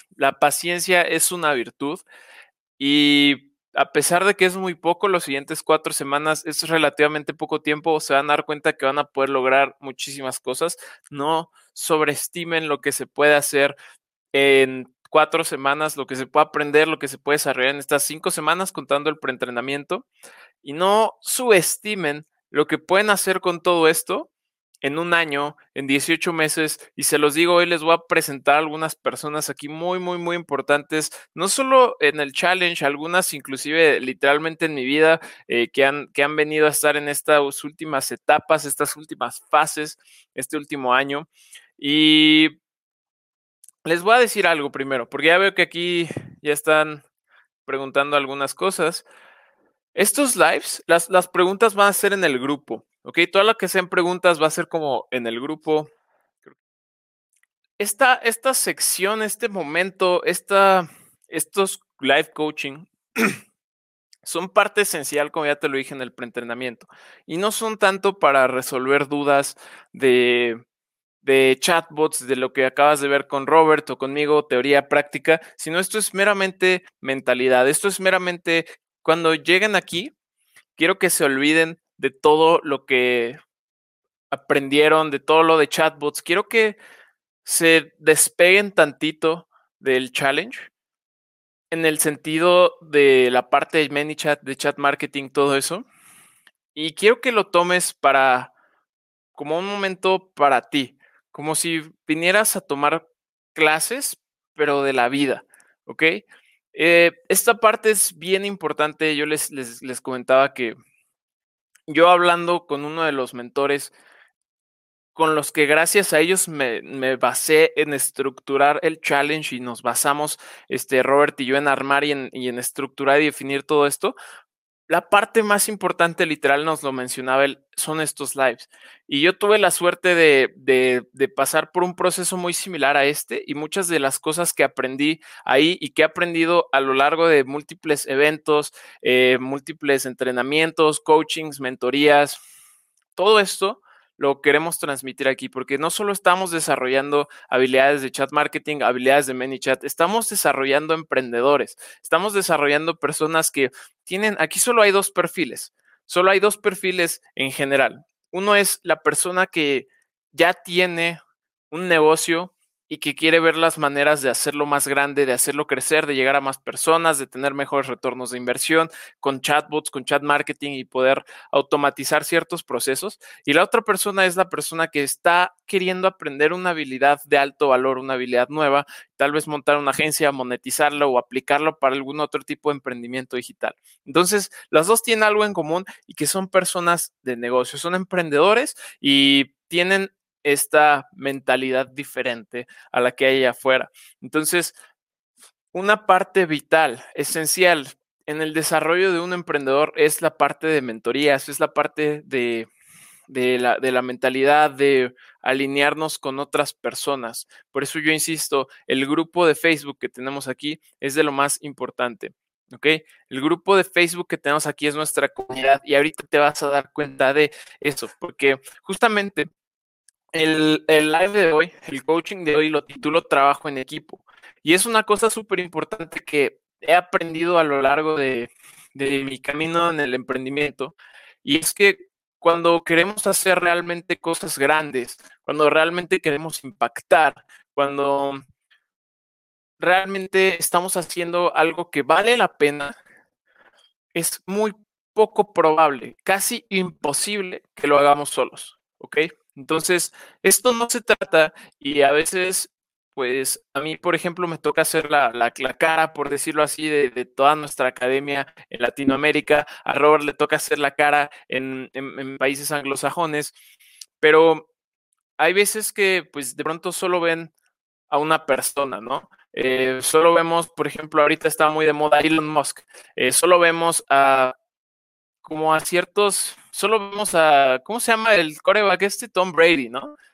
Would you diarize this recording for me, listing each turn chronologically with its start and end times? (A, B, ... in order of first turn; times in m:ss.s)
0:00.2-0:02.0 A
0:02.8-0:13.8 A
0:14.3-0:20.0 A
0:20.6-0:24.3 A
0:24.8-0:42.6 A
0:43.8-0:47.0 A
0:47.7-0:49.0 A
0:50.0-0:55.9 A
0:57.8-1:03.4 A
1:04.2-1:10.6 A
1:11.2-1:20.1 A
1:20.8-1:23.4 A
1:24.3-1:26.8 A
1:27.4-1:30.7 A
1:31.7-1:35.8 A
1:36.8-1:38.5 A
1:39.4-1:50.8 A
1:51.9-1:53.9 A
1:55.2-2:04.2 A
2:04.9-2:22.4 A
2:23.2-2:41.2 A
2:41.7-3:14.7 A
3:15.7-3:22.7 A
3:23.3-3:39.5 A
3:40.3-3:50.9 A
3:51.4-3:58.4 A
3:59.8-4:03.0 A
4:04.1-4:23.5 A
4:24.2-4:24.6 A
4:25.4-4:27.5 A
4:28.1-4:34.5 A
4:35.4-4:40.1 A